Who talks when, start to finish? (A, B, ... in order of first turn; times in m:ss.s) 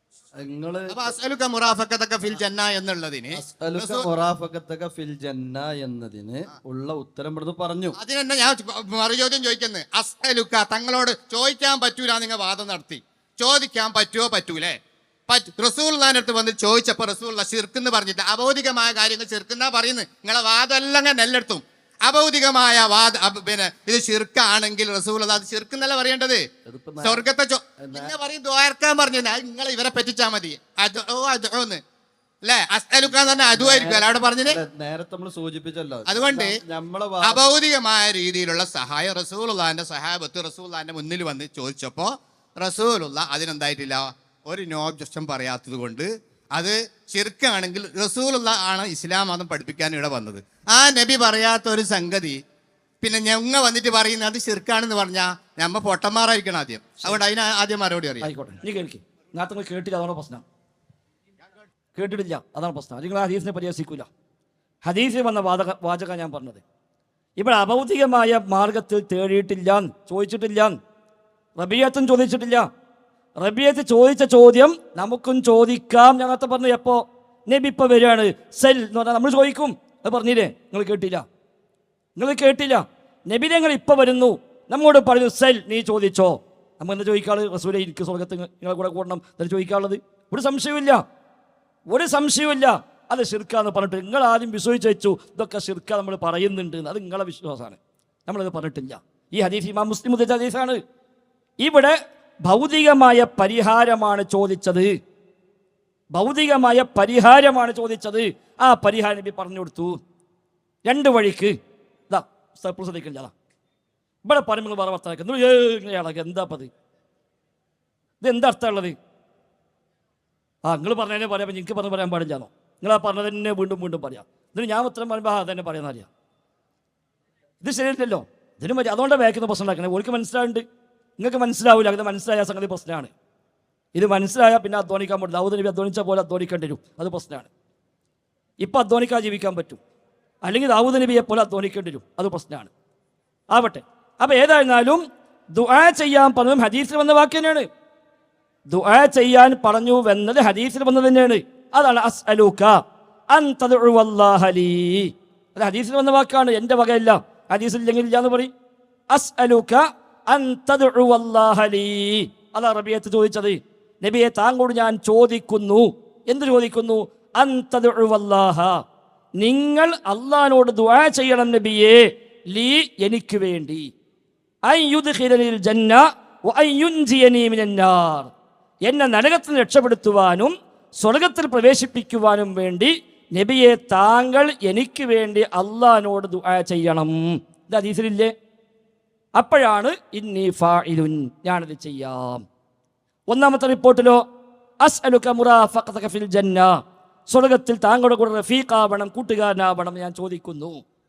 0:00.4-0:01.0 A
0:00.9-0:04.1 B
0:03.3-0:08.0 A
0:08.0-0:14.8 B
0:15.3-0:26.4 B
0:26.7-0:27.3 A
0:27.0-0:31.8 B
0:27.8-0:28.2 A
0:32.4-0:34.6 B
0:33.5-0:37.4 A
0:36.1-0:36.6 B
0:37.2-0:52.4 B
0:53.0-0:58.3 B
0:58.2-1:00.4 C
1:02.0-1:04.1 C
1:04.8-1:06.6 C
1:07.4-1:10.8 C
1:11.6-1:12.6 C
1:13.4-1:21.2 C
1:22.2-1:31.0 C
1:31.9-1:40.8 C
1:41.6-1:44.9 C
1:46.1-1:50.0 C
1:50.8-1:51.5 C
1:52.1-1:53.3 C
1:54.2-1:56.7 C
1:58.2-1:59.0 C
2:00.7-2:06.1 C
2:07.6-2:10.6 C
2:11.2-2:13.1 C
2:14.0-2:17.5 C
2:18.6-2:19.8 C
2:20.5-2:22.7 C
2:23.5-2:25.0 C
2:25.6-2:27.7 C
2:28.7-2:32.7 C
2:33.3-2:38.5 C
2:39.1-2:48.8 C
2:49.4-2:53.9 C
2:54.7-2:58.3 C
2:58.9-3:08.3 C
3:09.4-3:12.4 C
3:13.3-3:14.2 C
3:14.8-3:16.7 C
3:17.3-3:20.8 C